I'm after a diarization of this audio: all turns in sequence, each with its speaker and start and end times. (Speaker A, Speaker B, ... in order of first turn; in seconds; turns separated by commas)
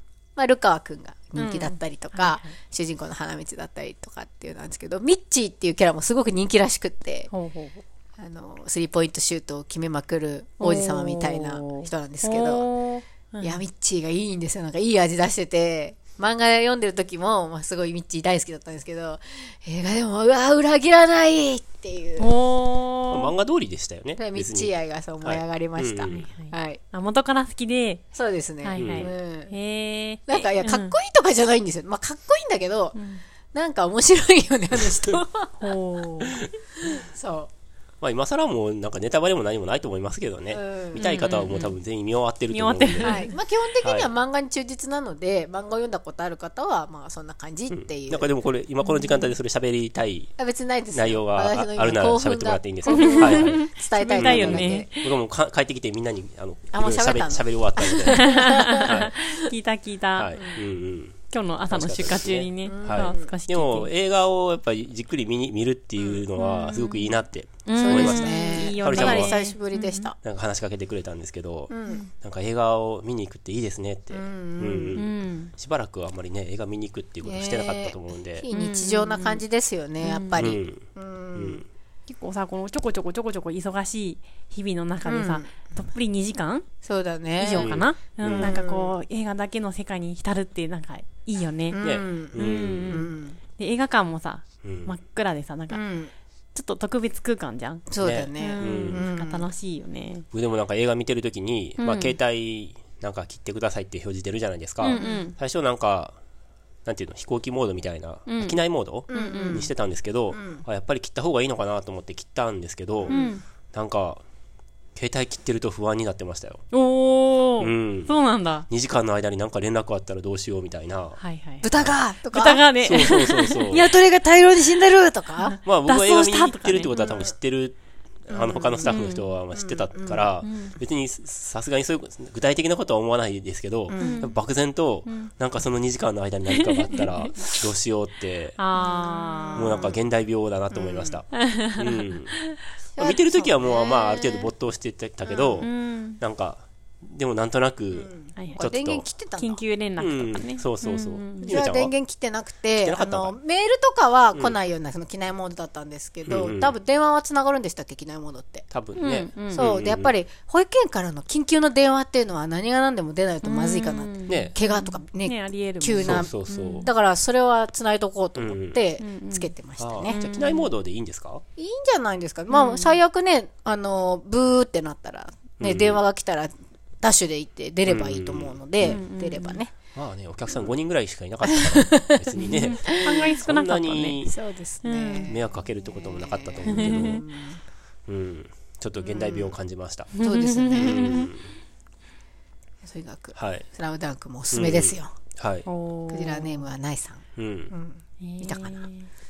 Speaker A: 0.4-7.3, Speaker B: 1.4-2.5, Speaker B: 7.3-7.8, Speaker A: 8.2-12.7, Speaker B: 10.6-13.6, Speaker A: 13.4-22.3, Speaker B: 22.2-23.3, Speaker C: 23.1-26.3, Speaker A: 24.2-26.8, Speaker B: 26.1-28.0, Speaker A: 28.1-29.5, Speaker B: 28.6-30.9, Speaker C: 28.8-29.1, Speaker A: 30.3-33.0, Speaker B: 32.9-33.2, Speaker A: 33.5-35.7, Speaker B: 35.6-36.5, Speaker A: 37.0-37.5, Speaker C: 38.0-43.2, Speaker A: 40.5-41.1, Speaker B: 41.0-41.8, Speaker B: 42.5-43.3, Speaker A: 43.0-48.3, Speaker C: 43.8-44.1, Speaker C: 47.7-50.3, Speaker B: 48.8-49.4, Speaker A: 50.4-54.9, Speaker C: 50.9-59.2, Speaker B: 52.9-55.1, Speaker A: 56.7-59.3, Speaker B: 58.1-60.3, Speaker C: 60.2-69.4, Speaker A: 60.4-60.6, Speaker B: 61.3-63.9, Speaker A: 62.6-63.3, Speaker A: 66.0-66.3, Speaker B: 66.4-70.1, Speaker A: 67.8-70.2, Speaker C: 70.2-78.5, Speaker A: 71.7-72.1, Speaker A: 74.1-75.0, Speaker B: 75.0-75.5, Speaker A: 77.2-81.7, Speaker B: 78.5-79.4, Speaker B: 80.0-80.5, Speaker C: 80.4-81.7, Speaker B: 82.1-86.7, Speaker A: 85.0-85.7, Speaker A: 86.8-87.7, Speaker B: 87.4-91.8, Speaker C: 87.6-88.5, Speaker A: 88.4-89.0, Speaker A: 91.7-93.4, Speaker C: 91.8-92.9, Speaker B: 92.3-95.8, Speaker C: 94.6-95.0, Speaker A: 95.7-96.1, Speaker B: 96.5-97.8, Speaker A: 97.9-99.5, Speaker C: 98.0-99.0, Speaker B: 98.4-100.3, Speaker C: 100.3-106.2, Speaker B: 101.8-102.2, Speaker B: 104.8-105.3, Speaker A: 104.9-105.3, Speaker C: 106.8-113.2, Speaker B: 108.3-109.7, Speaker A: 109.1-109.7, Speaker A: 110.3-110.7, Speaker A: 113.0-113.3, Speaker B: 113.1-113.4, Speaker C: 113.7-114.2, Speaker C: 115.0-116.6, Speaker B: 116.7-118.7, Speaker C: 117.6-118.2, Speaker C: 118.7-121.2, Speaker B: 121.2-121.7, Speaker A: 121.6-122.7, Speaker B: 122.3-123.8, Speaker C: 122.8-123.9, Speaker A: 123.7-125.6, Speaker B: 125.4-127.3, Speaker C: 125.7-138.6, Speaker A: 128.3-129.0, Speaker B: 128.8-129.3, Speaker A: 129.5-130.3, Speaker B: 130.4-130.8, Speaker A: 133.9-134.2, Speaker B: 134.0-134.4, Speaker B: 135.1-135.3, Speaker B: 136.5-137.6, Speaker B: 138.6-139.9, Speaker A: 138.7-140.0, Speaker C: 139.6-141.3, Speaker A: 140.7-141.2, Speaker B: 141.3-142.6, Speaker C: 141.8-142.4, Speaker A: 143.0-144.1, Speaker C: 143.0-149.1, Speaker B: 144.1-144.5, Speaker A: 145.2-145.7, Speaker B: 145.6-146.2, Speaker A: 147.9-149.6, Speaker B: 148.4-148.6, Speaker B: 149.4-151.6, Speaker C: 150.0-151.9, Speaker A: 151.4-158.7, Speaker C: 152.8-153.4, Speaker C: 156.3-156.7, Speaker C: 158.7-160.2, Speaker B: 159.0-159.7, Speaker A: 159.5-170.2, Speaker B: 163.4-166.9, Speaker C: 164.3-164.5, Speaker C: 166.0-166.9, Speaker C: 168.4-168.8, Speaker B: 169.0-169.5, Speaker C: 169.8-171.4, Speaker B: 170.1-170.7, Speaker A: 171.6-179.7, Speaker B: 172.5-173.0, Speaker C: 175.6-176.0, Speaker C: 177.9-179.0, Speaker B: 178.8-179.6, Speaker C: 179.9-184.4, Speaker A: 181.4-182.2, Speaker B: 182.4-184.2, Speaker A: 182.9-183.2, Speaker A: 184.3-185.4, Speaker B: 184.8-185.8, Speaker C: 185.3-187.2, Speaker A: 186.0-187.6, Speaker B: 186.7-187.2, Speaker C: 188.1-190.1, Speaker A: 189.0-189.6, Speaker B: 190.1-191.3, Speaker A: 190.2-191.2, Speaker C: 190.8-191.5, Speaker A: 192.8-195.1, Speaker C: 193.3-193.7, Speaker C: 194.5-195.7, Speaker B: 195.7-196.7, Speaker A: 196.1-198.8, Speaker C: 197.4-197.7, Speaker B: 198.2-199.1